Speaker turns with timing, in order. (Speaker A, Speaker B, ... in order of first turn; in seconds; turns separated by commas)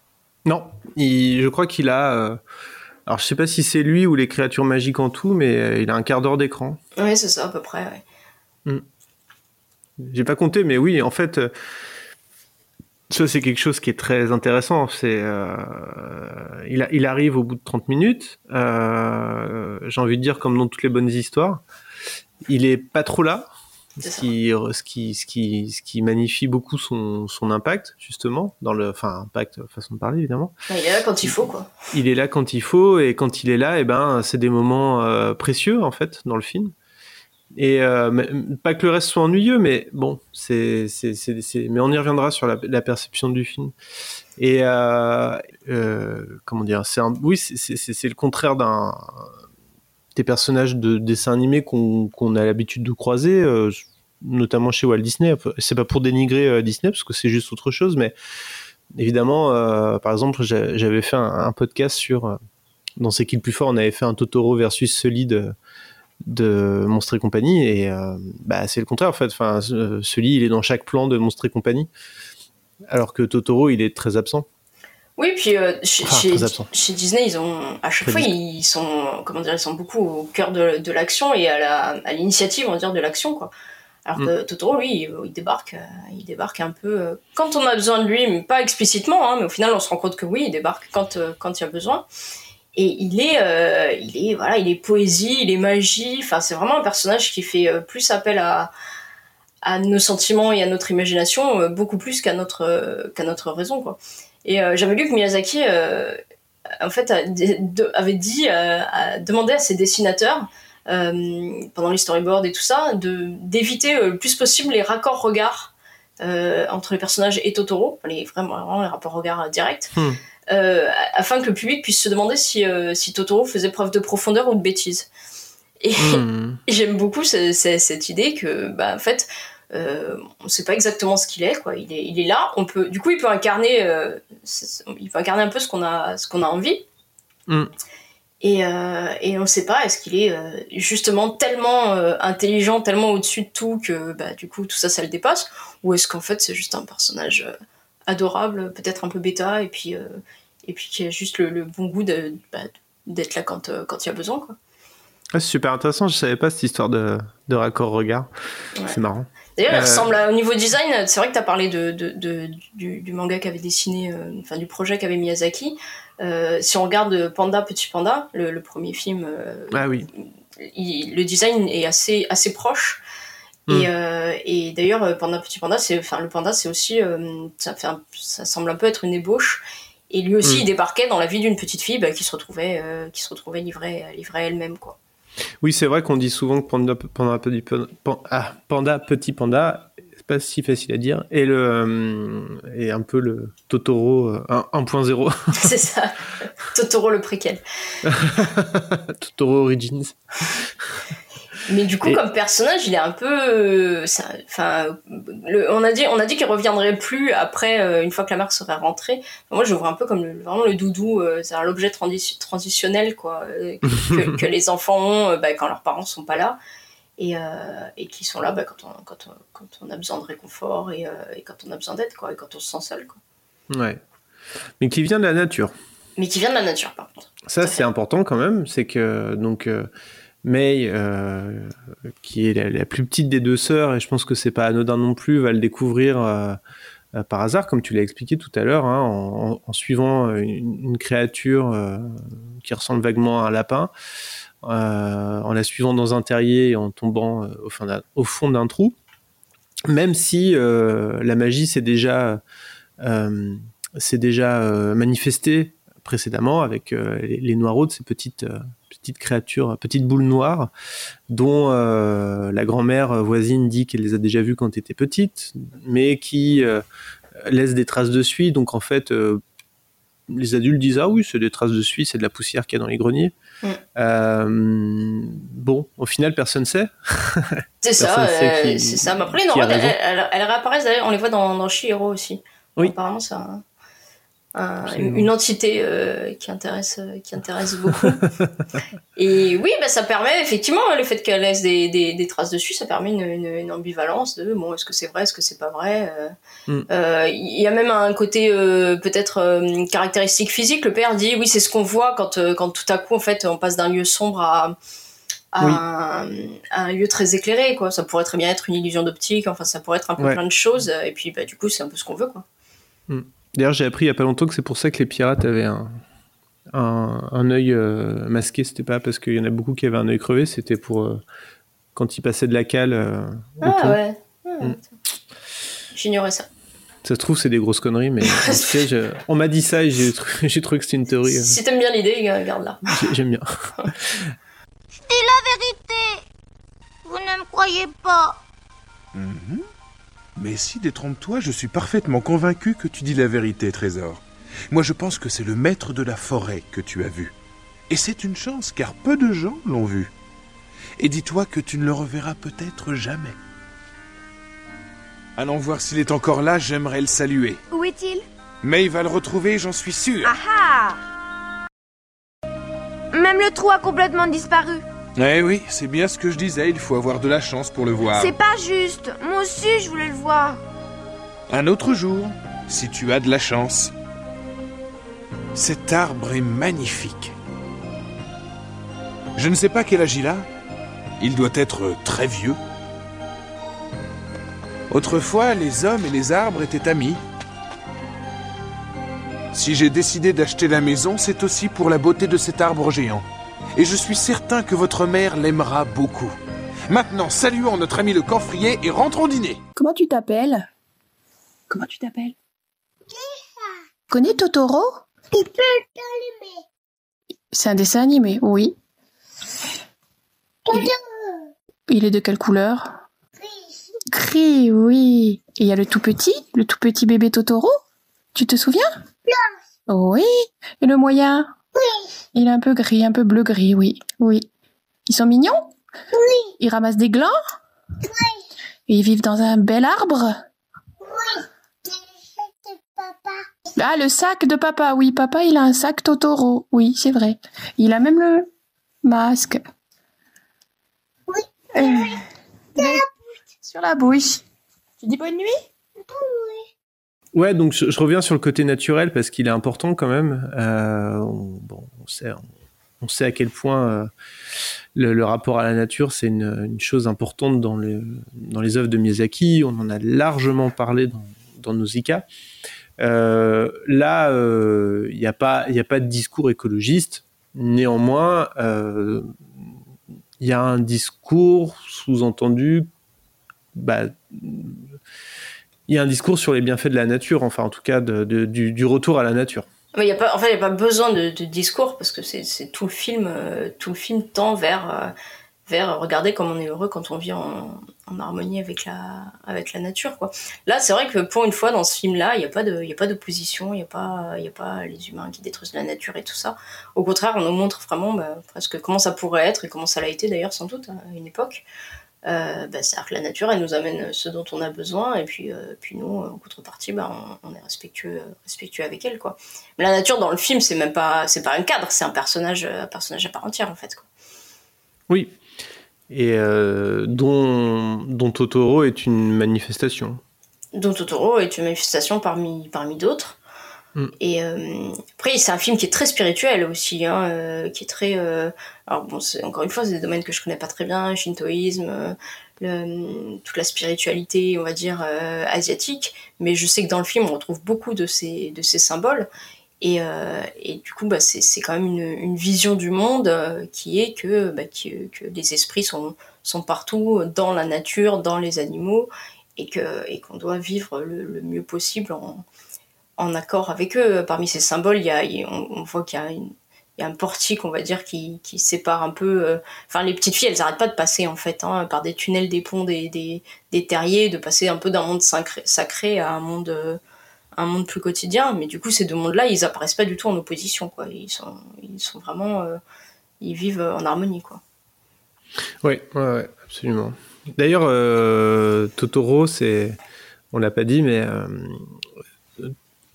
Speaker A: 0.4-2.4, Speaker A: 3.0-6.8, Speaker B: 7.0-8.0, Speaker A: 10.0-11.5, Speaker A: 13.1-21.6, Speaker A: 22.4-30.5, Speaker B: 24.0-24.3, Speaker B: 30.7-31.7, Speaker A: 31.9-36.7, Speaker A: 37.5-43.7, Speaker A: 44.4-49.3, Speaker A: 50.1-58.1, Speaker A: 58.9-62.4, Speaker A: 63.0-65.5, Speaker A: 66.2-71.9, Speaker A: 72.9-74.5, Speaker B: 75.2-83.5, Speaker A: 76.0-76.7, Speaker A: 78.0-78.3, Speaker B: 84.0-92.0, Speaker B: 92.7-98.7, Speaker B: 99.6-106.2, Speaker B: 106.8-119.9, Speaker A: 119.9-120.2, Speaker B: 120.5-125.1, Speaker B: 125.8-136.8, Speaker A: 126.0-126.6, Speaker B: 138.4-147.5, Speaker B: 148.1-154.6, Speaker A: 155.3-158.3, Speaker A: 158.8-160.1, Speaker B: 159.6-173.0, Speaker A: 169.7-170.1, Speaker B: 173.7-185.0, Speaker A: 185.6-195.7, Speaker B: 195.5-197.6, Speaker A: 198.0-200.9, Speaker B: 201.7-216.6, Speaker B: 217.2-223.2, Speaker A: 223.7-224.0, Speaker A: 224.8-225.7, Speaker B: 226.2-227.8, Speaker A: 227.4-229.9, Speaker A: 230.4-236.6, Speaker A: 237.1-243.9, Speaker A: 244.6-248.9, Speaker A: 249.9-252.4, Speaker A: 253.0-260.7, Speaker A: 261.3-266.8, Speaker A: 267.4-269.4, Speaker A: 270.3-273.3, Speaker A: 273.9-279.9, Speaker B: 277.8-283.6, Speaker B: 284.5-288.2, Speaker A: 284.8-285.3, Speaker B: 289.1-296.3, Speaker B: 296.9-304.8, Speaker B: 305.5-312.4, Speaker A: 313.1-316.0, Speaker A: 316.7-321.2, Speaker A: 321.9-324.0, Speaker B: 323.6-324.9, Speaker B: 325.9-326.5, Speaker A: 327.0-331.6, Speaker B: 328.2-328.8, Speaker B: 331.3-332.8, Speaker A: 332.9-334.3, Speaker C: 335.1-336.2, Speaker C: 337.0-338.4, Speaker D: 339.1-339.6, Speaker D: 340.4-347.3, Speaker D: 347.9-350.1, Speaker D: 351.0-353.4, Speaker D: 355.4-357.6, Speaker E: 357.7-358.2, Speaker D: 358.6-360.3, Speaker E: 360.2-361.0, Speaker E: 363.1-364.8, Speaker D: 365.1-368.3, Speaker E: 368.1-370.6, Speaker D: 371.5-373.9, Speaker D: 375.5-377.3, Speaker D: 379.4-380.4, Speaker D: 381.2-382.6, Speaker D: 384.9-387.2, Speaker D: 389.5-393.2, Speaker D: 393.8-396.4, Speaker D: 396.9-399.6, Speaker F: 399.8-400.7, Speaker F: 401.7-402.4, Speaker F: 404.1-405.0, Speaker F: 407.5-408.7, Speaker F: 411.9-412.9, Speaker F: 414.1-417.7, Speaker F: 418.3-418.9, Speaker F: 419.9-421.5, Speaker F: 422.3-424.5, Speaker F: 425.1-425.7, Speaker F: 426.6-427.3, Speaker F: 428.9-430.3, Speaker F: 433.8-438.5, Speaker F: 439.0-439.6, Speaker F: 441.7-442.2, Speaker F: 442.8-443.0, Speaker F: 443.6-444.4, Speaker F: 445.0-445.5, Speaker A: 447.3-452.4, Speaker A: 453.0-454.1, Speaker A: 454.9-462.2, Speaker A: 463.0-469.3, Speaker A: 470.4-472.9, Speaker A: 473.7-474.9, Speaker A: 475.9-479.6, Speaker B: 479.9-485.1, Speaker B: 485.7-501.6, Speaker B: 502.2-514.0, Speaker A: 515.1-515.4, Speaker A: 516.1-520.2, Speaker B: 520.7-523.4, Speaker B: 524.2-539.3, Speaker B: 539.8-552.4, Speaker B: 553.2-567.0, Speaker B: 567.5-572.8, Speaker B: 573.4-574.6, Speaker A: 575.8-580.0, Speaker A: 580.5-581.9